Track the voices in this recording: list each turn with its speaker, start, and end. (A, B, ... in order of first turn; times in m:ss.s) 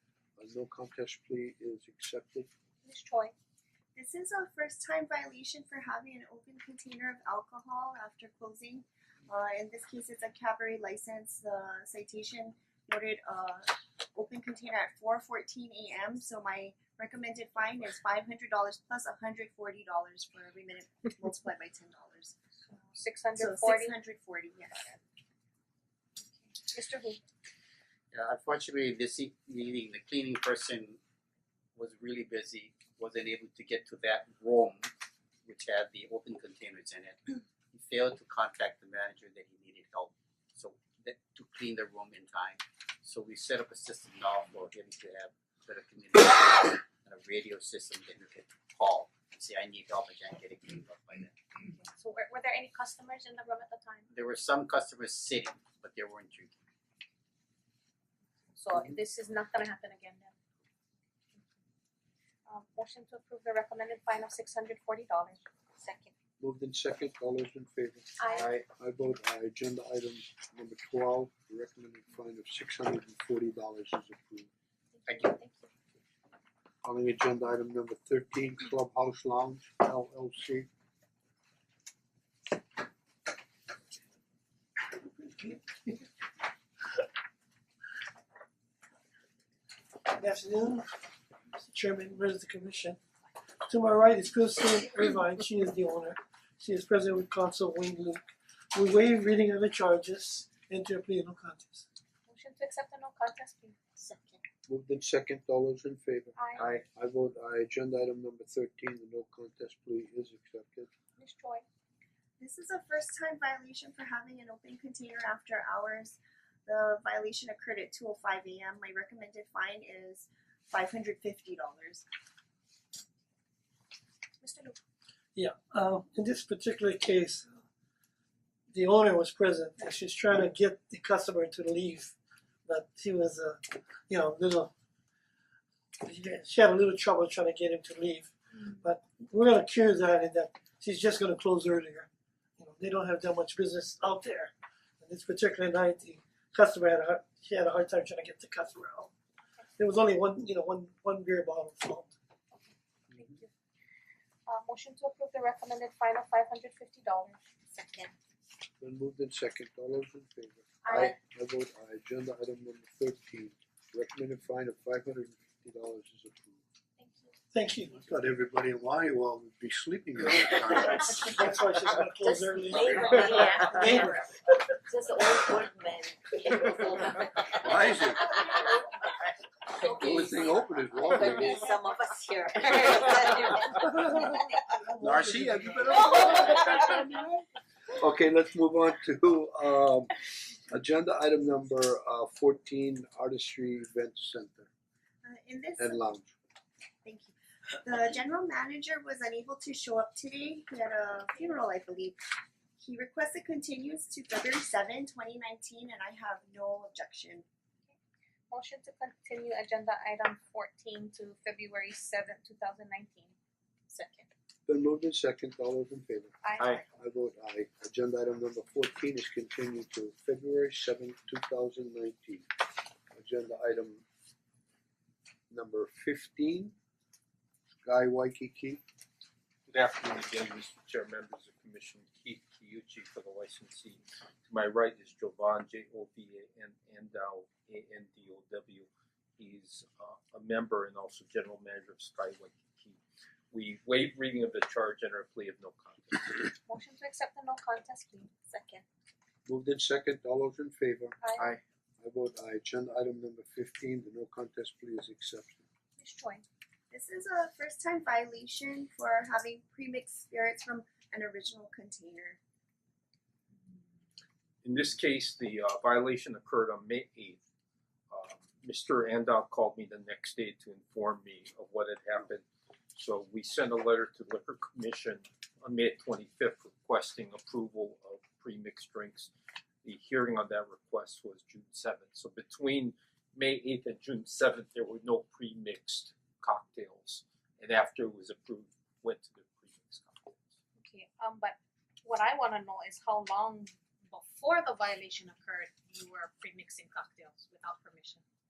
0:00.4-0:02.5 A
0:02.8-0:03.3 B
0:03.9-0:22.3 C
0:22.7-0:23.9 B
0:23.4-0:25.0 C
0:26.4-0:27.2 B
0:28.1-0:31.0 D
0:31.7-0:34.9 D
0:35.4-0:51.4 D
0:51.7-0:54.0 B
0:54.1-0:56.6 D
0:58.6-1:00.3 B
1:02.5-1:06.1 B
1:06.4-1:08.1 A
1:08.2-1:08.6 B
1:08.3-1:08.6 D
1:08.7-1:14.5 A
1:14.9-1:15.7 B
1:15.1-1:15.3 D
1:16.8-1:20.7 A
1:25.3-1:25.6 E
1:30.1-1:30.9 E
1:31.5-1:33.0 E
1:33.7-1:41.8 E
1:42.3-1:44.4 B
1:44.7-1:50.9 A
1:46.4-1:46.8 B
1:51.2-1:51.6 B
1:52.4-2:02.0 C
2:04.4-2:04.8 B
2:05.4-2:07.5 E
2:08.7-2:12.1 E
2:12.6-2:14.7 E
2:16.0-2:22.1 E
2:22.6-2:29.1 E
2:29.8-2:32.1 E
2:32.5-2:33.5 B
2:34.5-2:37.4 B
2:37.7-2:38.1 F
2:38.8-2:46.6 A
2:40.8-2:41.1 B
2:47.0-2:47.3 B
2:47.5-2:48.0 E
2:47.9-2:51.3 A
2:51.2-2:54.1 E
2:52.2-2:54.3 F
2:54.9-2:58.3 F
2:57.6-2:58.3 A
2:59.8-3:04.7 F
2:59.9-3:01.6 A
3:04.8-3:05.9 E
3:05.0-3:06.7 A
3:06.0-3:06.7 F
3:08.0-3:14.7 A
3:15.2-3:16.0 C
3:15.8-3:16.3 A
3:17.0-3:22.2 C
3:22.8-3:27.4 C
3:28.5-3:33.3 B
3:33.9-3:34.3 B
3:34.7-3:42.5 A
3:36.4-3:36.8 B
3:43.1-3:44.0 A
3:45.5-3:46.7 A
3:47.8-3:48.8 A
3:49.7-4:03.0 G
4:03.5-4:06.4 G
4:06.6-4:08.8 B
4:09.4-4:11.2 A
4:11.2-4:11.6 B
4:12.0-4:15.6 A
4:16.0-4:16.4 B
4:16.9-4:22.4 C
4:24.6-4:27.4 G
4:28.1-4:39.3 G
4:39.8-4:50.4 G
4:50.8-4:58.2 B